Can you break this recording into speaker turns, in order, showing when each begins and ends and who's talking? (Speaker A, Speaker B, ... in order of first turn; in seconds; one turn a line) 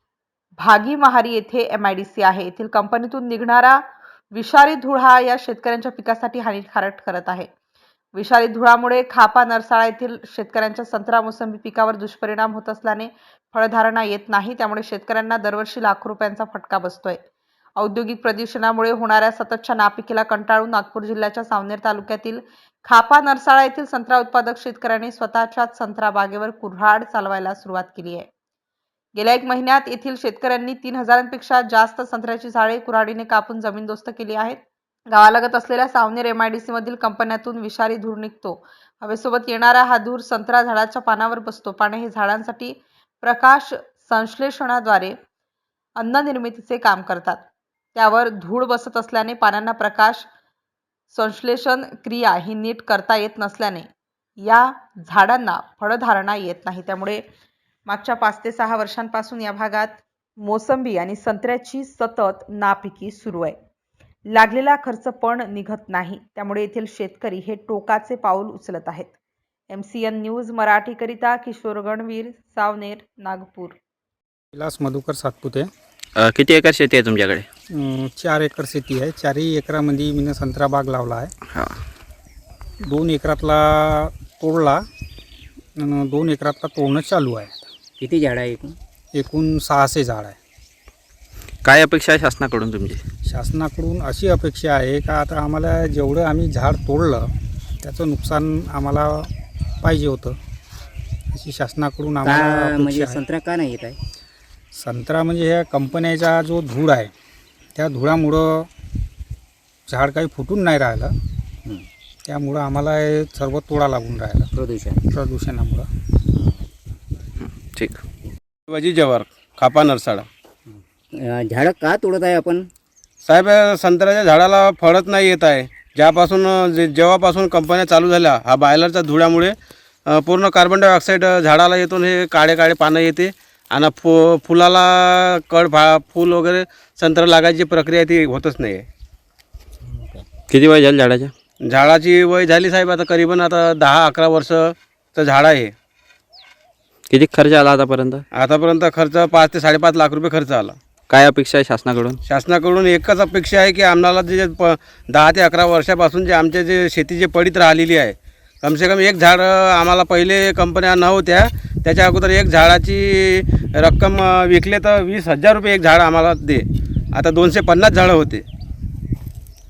Speaker A: 0.6-3.8
Speaker A: 4.3-7.5
Speaker A: 8.2-17.2
Speaker A: 17.8-28.3
Speaker A: 29.2-45.2
Speaker A: 46.0-50.3
Speaker A: 51.1-57.2
Speaker A: 57.9-63.6
Speaker A: 64.3-69.2
Speaker A: 69.7-73.8
Speaker B: 74.5-75.7
Speaker C: 76.2-77.5
Speaker B: 77.7-81.3
Speaker B: 82.8-84.8
Speaker B: 85.8-87.7
Speaker D: 88.0-88.8
Speaker B: 89.1-90.4
Speaker C: 91.7-93.0
Speaker B: 93.3-99.3
Speaker B: 99.8-100.4
Speaker B: 101.3-103.2
Speaker D: 102.2-104.0
Speaker B: 104.8-107.1
Speaker B: 107.8-108.7
Speaker B: 109.9-111.1
Speaker B: 112.3-114.5
Speaker D: 114.5-115.1
Speaker B: 115.1-115.9
Speaker C: 117.6-118.0
Speaker E: 118.7-120.3
Speaker D: 120.7-122.7
Speaker E: 123.2-129.6
Speaker E: 130.1-138.9
Speaker D: 139.9-140.3
Speaker C: 140.5-141.3
Speaker E: 141.6-145.7
Speaker C: 147.1-148.2
Speaker E: 148.3-150.8
Speaker C: 151.1-152.2
Speaker E: 152.3-168.4